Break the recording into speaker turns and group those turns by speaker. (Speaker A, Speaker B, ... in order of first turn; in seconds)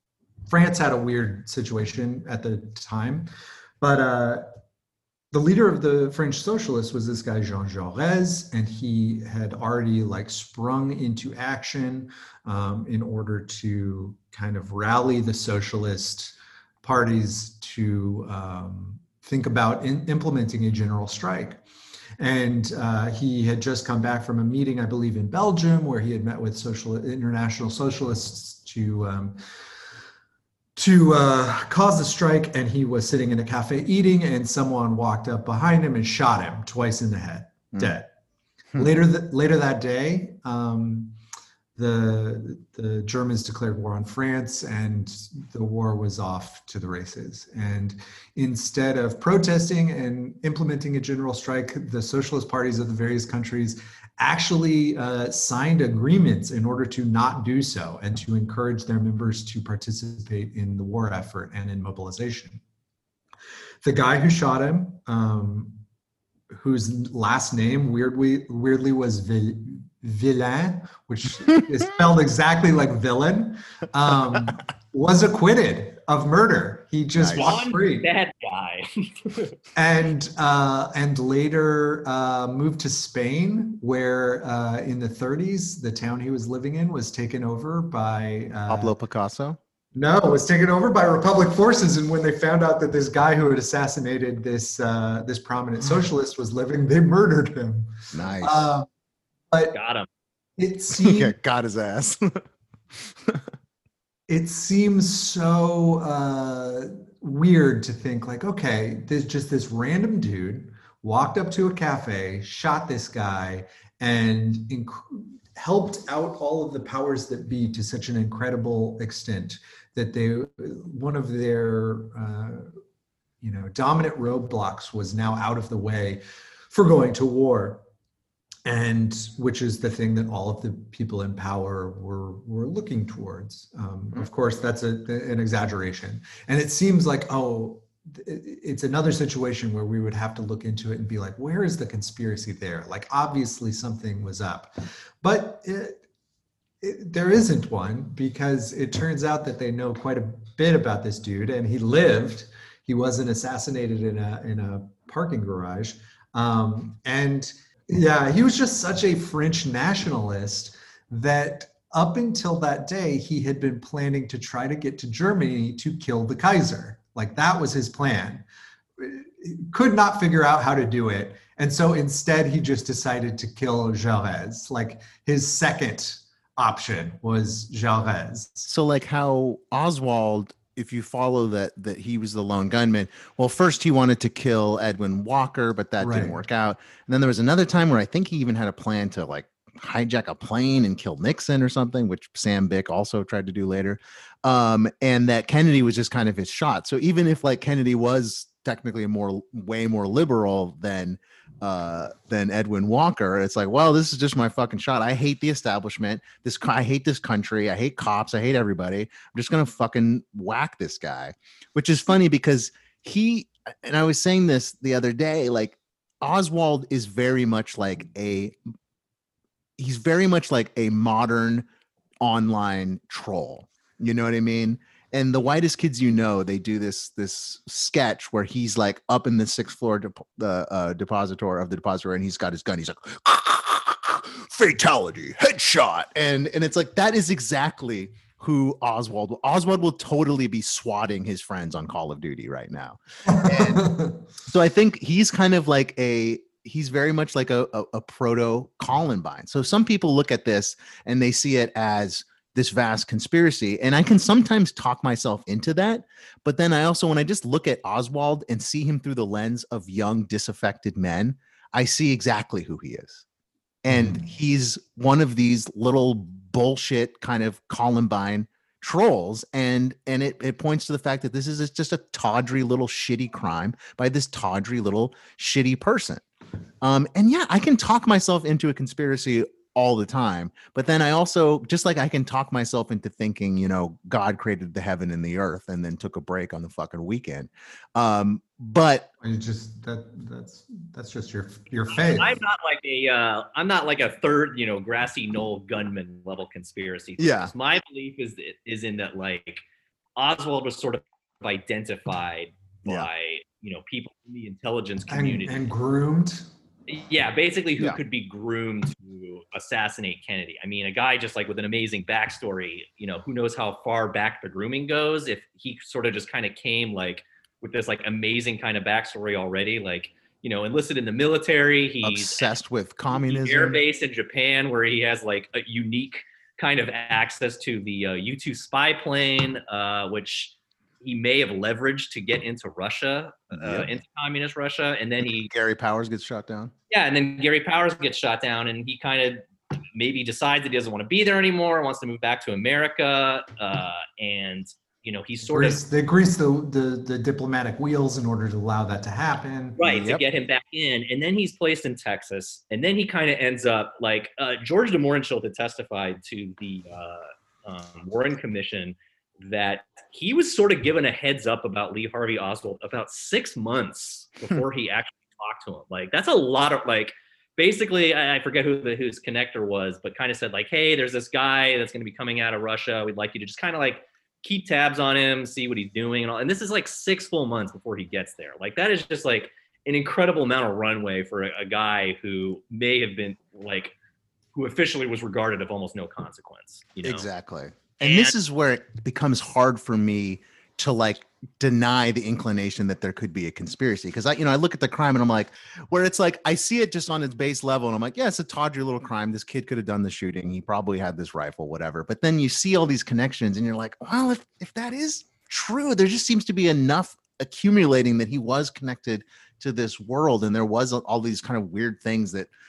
Speaker A: 0.5-3.3, 3.8-4.5, 5.3-21.6, 22.2-29.4, 30.8-38.1, 38.8-41.2, 41.8-62.6, 63.8-65.8, 66.5-78.1, 79.8-88.9, 89.9-98.9, 99.5-99.8, 100.6-101.3, 104.3-122.7, 123.4-127.8, 128.7-146.0, 146.8-168.4, 169.0-178.7, 186.0-186.4, 243.3-244.2, 263.9-264.2, 289.2-292.4, 305.1-306.5, 345.5-349.8
Speaker B: 77.2-77.5, 88.7-89.6, 98.1-98.7, 101.0-103.4, 178.7-218.6, 219.8-221.7, 222.2-263.2, 263.8-276.2, 276.8-289.1, 297.2-297.5, 322.0-323.8, 333.5-333.9, 335.5-336.7, 349.9-350.2, 387.0-412.5
Speaker C: 77.4-79.5, 99.7-100.1, 291.9-299.6, 300.2-305.6, 306.9-322.5, 323.1-335.5, 336.9-345.8, 349.8-383.9, 384.6-387.3, 388.0-388.4